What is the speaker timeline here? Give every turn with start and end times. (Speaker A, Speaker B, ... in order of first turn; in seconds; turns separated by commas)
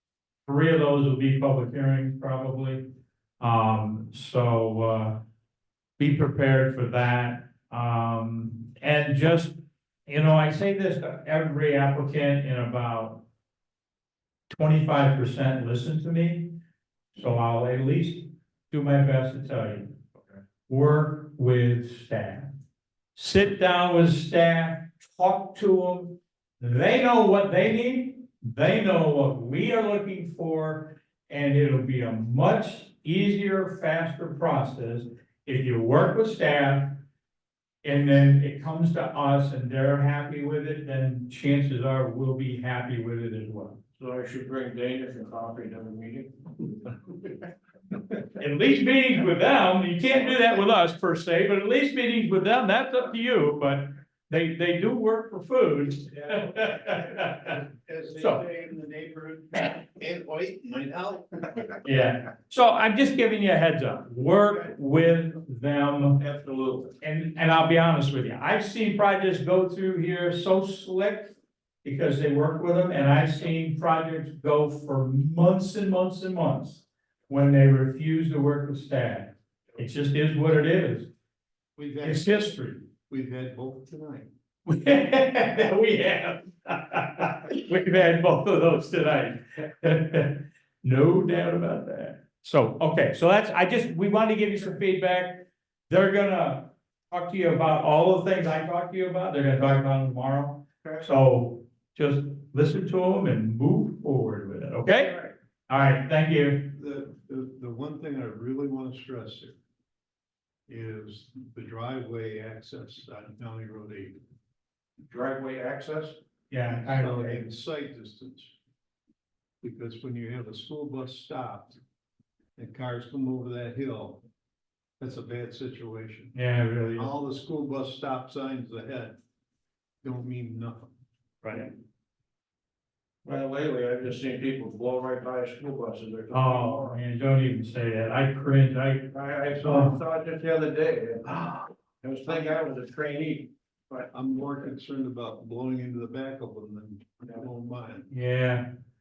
Speaker A: 0.5-2.8, Speaker A: 3.4-5.2, Speaker A: 6.0-9.5, Speaker A: 10.1-13.2, Speaker A: 14.5-16.5, Speaker A: 17.1-19.9, Speaker A: 20.7-22.5, Speaker A: 23.1-37.0, Speaker A: 37.8-43.8, Speaker B: 44.0-46.5, Speaker A: 48.4-57.6, Speaker C: 56.2-61.8, Speaker A: 58.1-58.4, Speaker A: 61.8-66.2, Speaker B: 66.2-66.9, Speaker A: 67.0-81.1, Speaker C: 81.8-82.5, Speaker A: 82.0-82.9, Speaker C: 83.1-84.3, Speaker A: 84.7-106.7, Speaker C: 106.7-109.6, Speaker C: 110.7-114.2, Speaker B: 115.1-116.2, Speaker A: 116.5-117.5, Speaker C: 116.8-118.5, Speaker C: 119.6-121.8, Speaker C: 122.5-124.2, Speaker C: 125.0-126.3, Speaker A: 126.3-127.1, Speaker C: 126.9-129.2, Speaker C: 130.0-130.9, Speaker B: 133.2-137.0, Speaker A: 136.3-140.0, Speaker B: 139.1-141.3, Speaker B: 142.0-144.1, Speaker C: 144.1-148.1, Speaker A: 148.1-148.6